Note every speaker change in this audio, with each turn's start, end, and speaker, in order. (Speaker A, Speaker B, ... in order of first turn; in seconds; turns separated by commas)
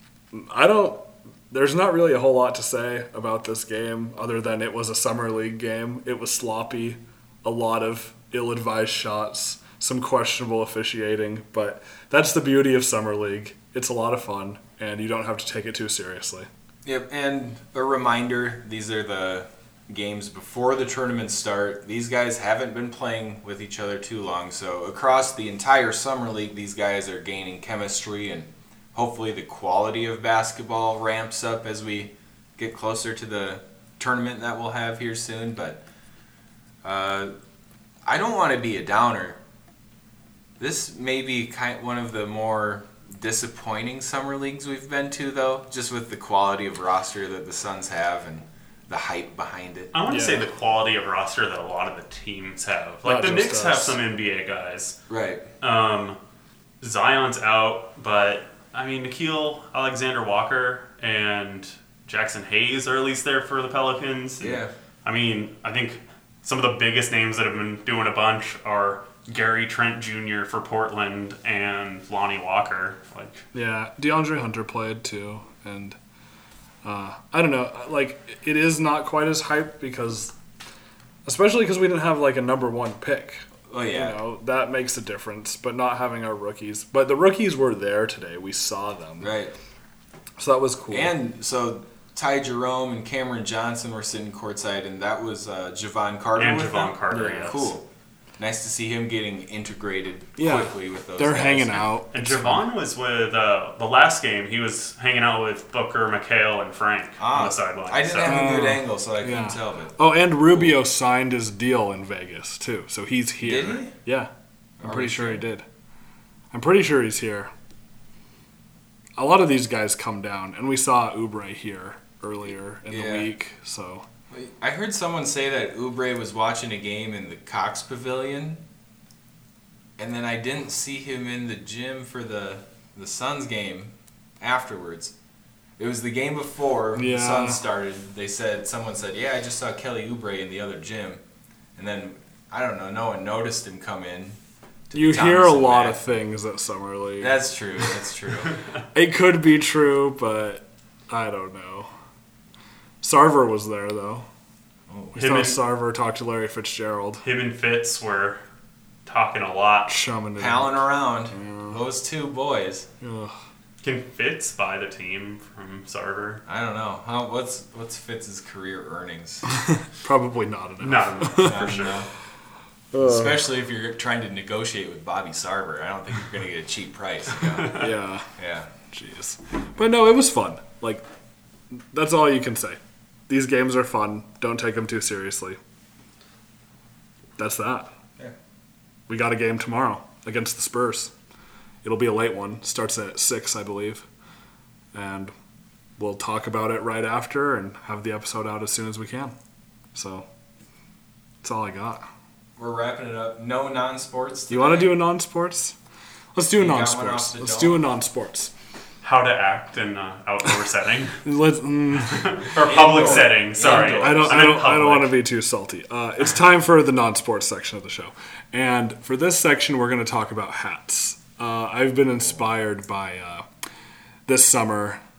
Speaker A: 0.3-16.5, Speaker B: 16.8-35.8, Speaker B: 36.8-37.3, Speaker B: 38.0-39.4, Speaker B: 40.6-49.9, Speaker C: 49.9-55.0, Speaker A: 50.1-50.4, Speaker A: 53.0-54.0, Speaker B: 55.1-55.5, Speaker C: 55.6-56.2, Speaker C: 56.8-73.4, Speaker B: 64.4-64.7, Speaker A: 73.5-76.0, Speaker A: 76.8-80.3, Speaker A: 81.2-89.3, Speaker B: 83.7-84.2, Speaker B: 89.2-89.5, Speaker A: 90.4-91.1, Speaker B: 90.9-97.8, Speaker C: 96.4-97.7, Speaker B: 98.4-102.0, Speaker A: 100.4-102.6, Speaker C: 102.1-108.3, Speaker B: 107.2-110.8, Speaker A: 108.2-114.3, Speaker B: 113.4-113.9, Speaker B: 114.8-115.4, Speaker A: 114.8-115.6, Speaker A: 116.5-117.5, Speaker A: 119.2-124.0, Speaker B: 122.9-123.3, Speaker B: 124.3-128.6, Speaker B: 130.0-135.1, Speaker B: 135.8-141.2, Speaker A: 136.9-137.6, Speaker B: 141.8-146.1, Speaker A: 144.9-147.4, Speaker B: 147.2-148.5, Speaker A: 148.9-151.9, Speaker A: 153.0-154.2, Speaker B: 154.9-155.2, Speaker A: 155.1-157.2, Speaker C: 155.2-155.6, Speaker C: 157.2-158.4, Speaker C: 159.1-159.9, Speaker A: 159.9-161.8, Speaker B: 160.4-162.9, Speaker A: 163.0-163.3, Speaker C: 163.8-166.4, Speaker B: 166.4-169.4, Speaker A: 169.5-171.8, Speaker C: 170.8-172.0, Speaker B: 171.4-172.1, Speaker A: 172.9-173.4, Speaker B: 173.0-178.7, Speaker A: 177.7-178.3, Speaker A: 178.9-181.0, Speaker A: 181.7-185.6, Speaker A: 187.4-187.9, Speaker A: 189.1-191.1, Speaker A: 191.8-194.1, Speaker A: 194.9-195.3, Speaker A: 196.0-199.3, Speaker A: 199.9-200.2, Speaker A: 201.4-202.1, Speaker B: 202.6-205.0, Speaker A: 204.5-205.7, Speaker A: 206.3-208.5, Speaker B: 206.5-207.9, Speaker C: 209.0-211.2, Speaker A: 211.2-223.4, Speaker C: 212.1-215.2, Speaker B: 212.6-214.5, Speaker A: 224.3-225.0